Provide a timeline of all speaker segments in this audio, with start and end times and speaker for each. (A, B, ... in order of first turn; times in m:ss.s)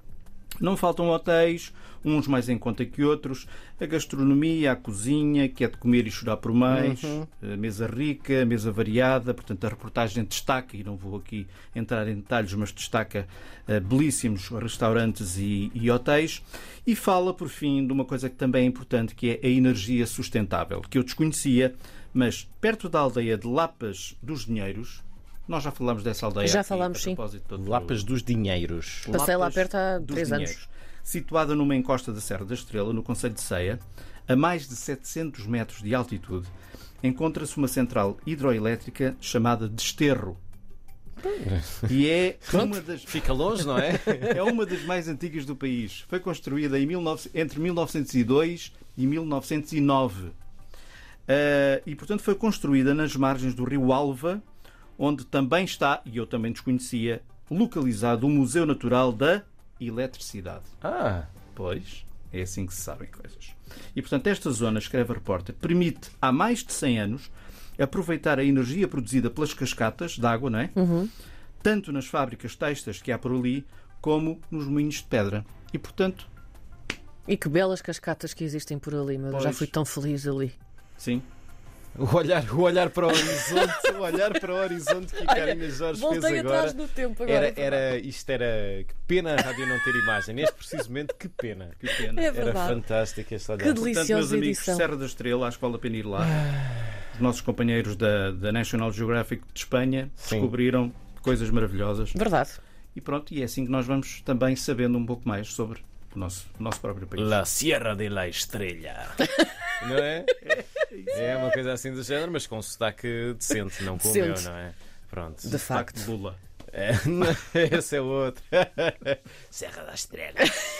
0:00.6-0:28.1 A
0:06.7-0:07.3 B
0:26.4-0:27.2 C
0:27.6-0:29.1 B
0:29.0-0:36.5 A
0:29.1-0:30.6 C
0:37.0-0:40.4 A
0:41.2-0:41.9 B
0:41.9-0:43.2 A
0:42.5-0:44.5 B
0:44.2-0:50.3 A
0:51.3-0:54.4 A
0:55.0-1:00.7 A
1:00.8-1:01.3 B
1:01.5-1:10.7 A
1:10.8-1:11.1 C
1:11.6-1:16.3 A
1:17.3-1:20.5 C
1:19.3-1:19.7 A
1:21.0-1:21.3 A
1:22.0-1:33.8 B
1:25.2-1:27.9 C
1:31.8-1:32.6 A
1:32.0-1:32.8 C
1:33.6-1:34.9 C
1:33.7-1:36.5 A
1:36.3-1:36.7 B
1:37.1-1:42.2 A
1:40.2-1:40.5 B
1:42.1-1:42.6 C
1:42.9-1:47.4 A
1:47.2-1:49.2 B
1:49.8-1:50.5 B
1:50.4-1:51.4 A
1:51.1-1:55.6 B
1:53.8-1:54.5 C
1:55.4-1:56.1 C
1:55.5-1:56.4 A
1:56.7-2:00.6 B